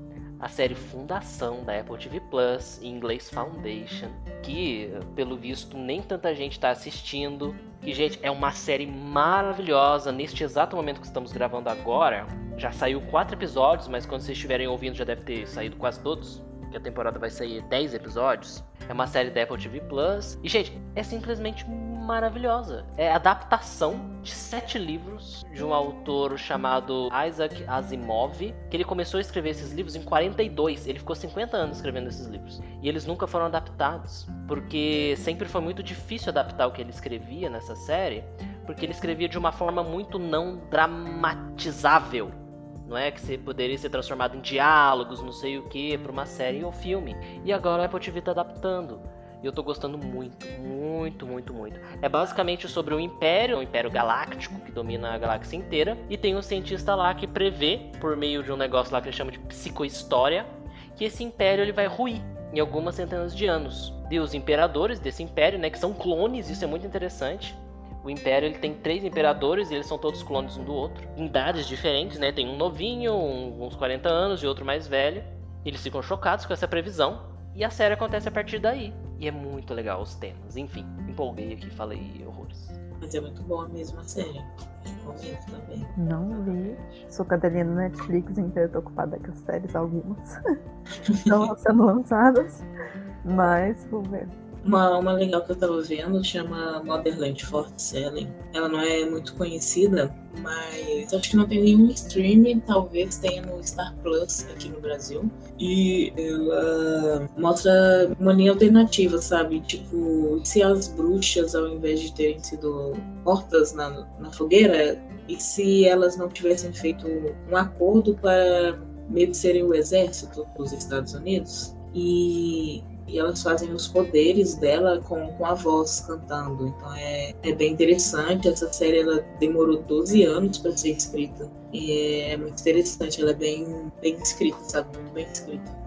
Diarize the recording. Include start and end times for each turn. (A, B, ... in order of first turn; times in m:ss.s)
0:00.4-1:22.8 A
1:23.0-1:25.9 B
1:26.0-1:30.3 C
1:26.3-1:27.1 A
1:31.0-1:31.4 B
1:31.2-1:32.7 C
1:33.2-1:34.3 C
1:34.6-2:15.7 B